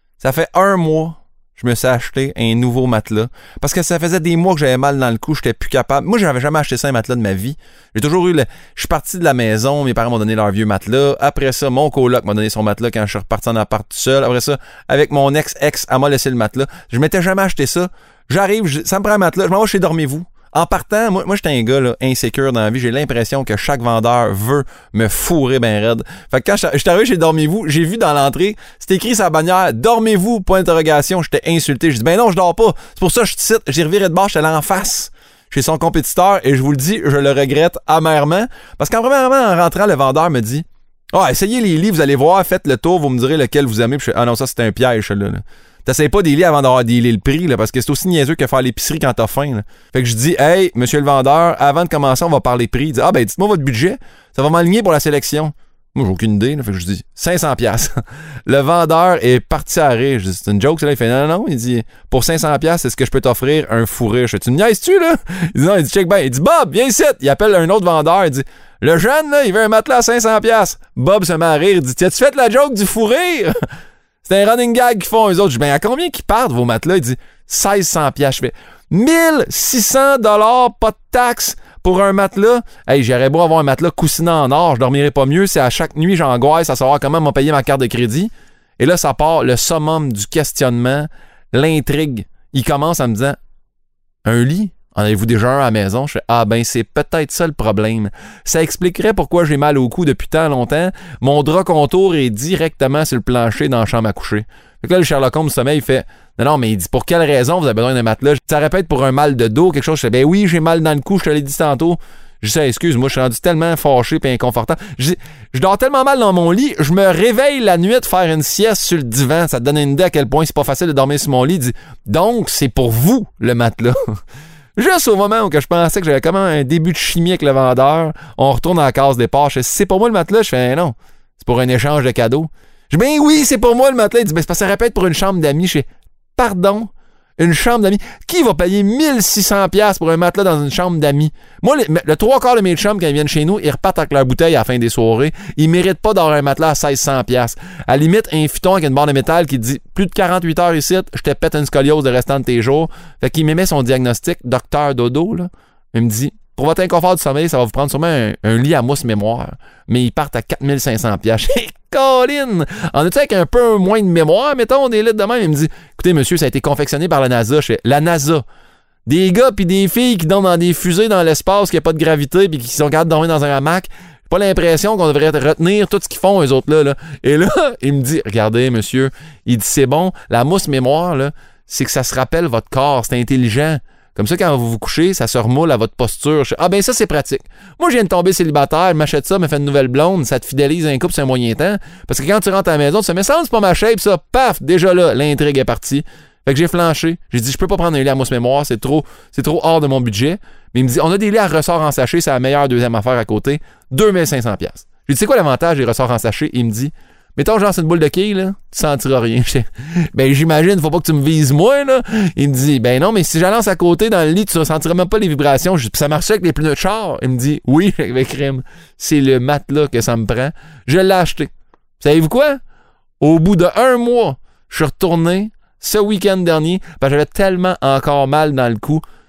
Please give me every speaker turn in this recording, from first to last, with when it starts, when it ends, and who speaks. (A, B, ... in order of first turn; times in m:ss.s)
0:00.2-0:57.9 A
0:58.5-1:13.6 A
1:14.2-1:33.4 A
1:34.2-2:04.2 A
2:04.8-2:48.4 A
2:49.0-3:42.6 A
3:43.2-3:49.0 A